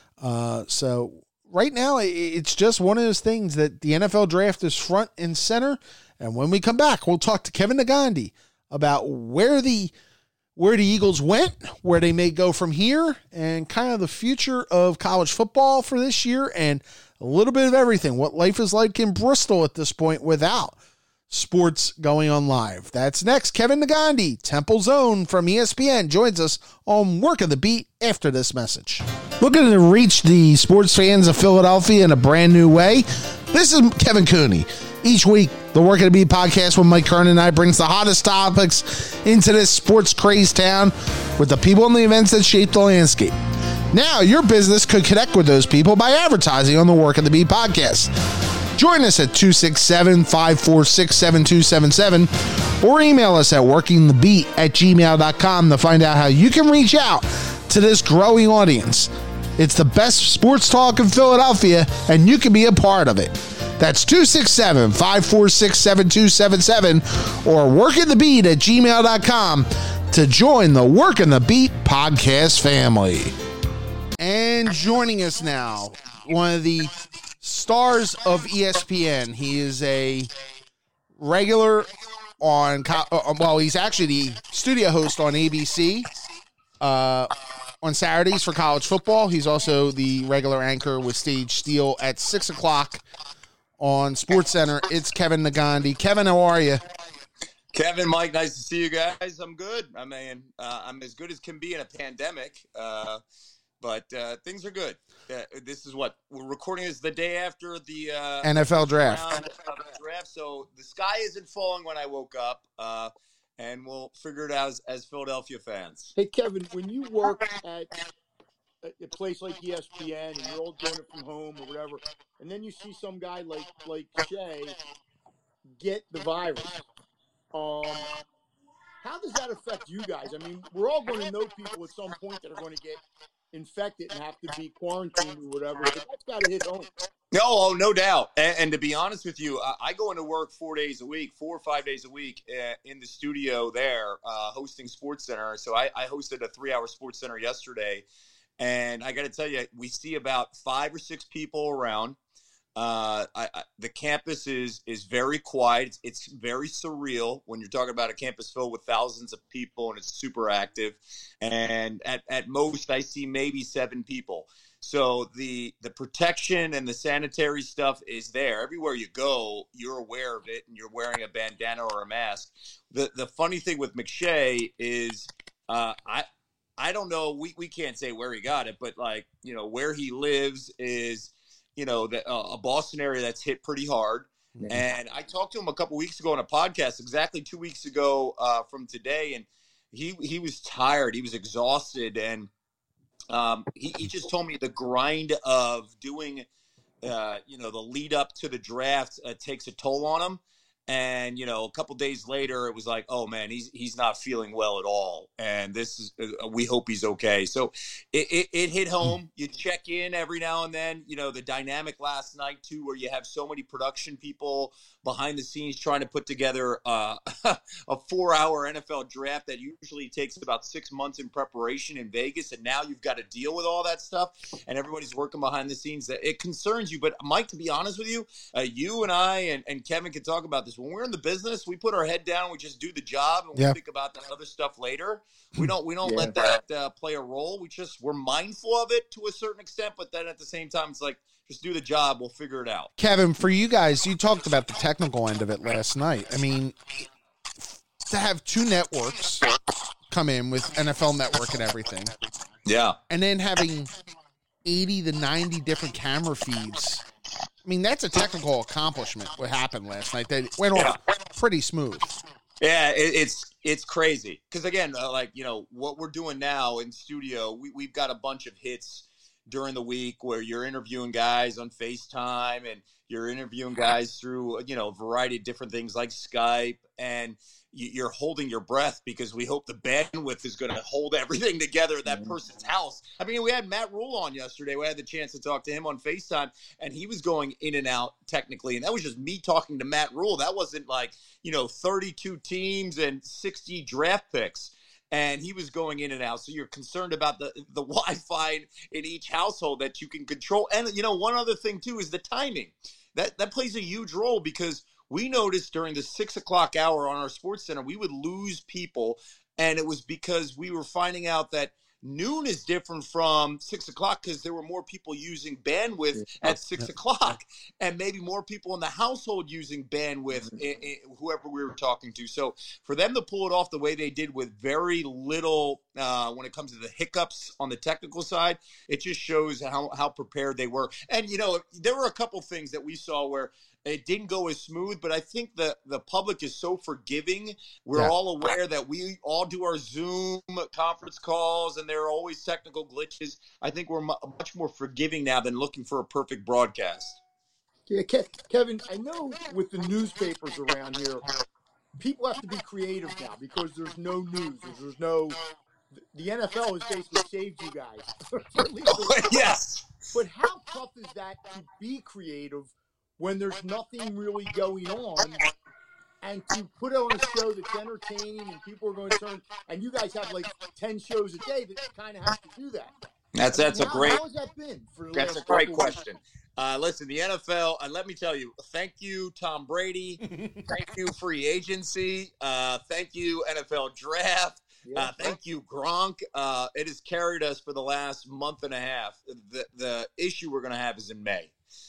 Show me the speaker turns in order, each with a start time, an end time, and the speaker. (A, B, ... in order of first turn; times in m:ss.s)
0:00.2-0:09.9 A
0:10.6-0:20.8 A
0:21.3-0:43.3 A
0:43.9-0:48.1 A
0:48.8-1:13.3 A
1:14.2-1:20.3 A
1:21.2-1:21.9 A
1:22.4-1:26.1 A
1:26.8-1:27.3 A
1:27.8-1:33.0 A
1:33.8-1:36.8 A
1:37.7-1:43.2 B
1:43.8-1:56.1 B
1:48.4-1:49.2 A
1:56.2-1:57.9 C
1:58.8-2:04.8 C
2:05.8-2:06.8 C
2:07.5-2:08.1 C
2:09.0-2:13.0 C
2:13.5-2:16.9 C
2:17.3-2:28.0 B
2:28.6-2:32.2 B
2:32.8-2:56.3 B
2:56.8-3:12.5 B
3:13.3-3:16.5 B
3:17.0-4:02.9 B
3:56.0-3:56.3 C
4:03.0-4:06.8 A
4:08.0-4:09.5 A
4:10.1-4:12.1 A
4:12.7-4:13.0 B
4:13.1-4:13.9 A
4:14.6-4:17.0 A
4:17.6-4:22.1 A
4:22.6-5:47.2 B
5:47.9-5:51.2 C
5:52.0-5:55.4 C
5:55.9-5:59.4 C
5:58.9-5:59.9 B
6:00.1-6:05.4 C
6:06.2-6:12.9 C
6:13.4-6:14.2 B
6:13.5-6:16.0 C
6:15.1-6:31.5 B
6:24.8-6:25.3 C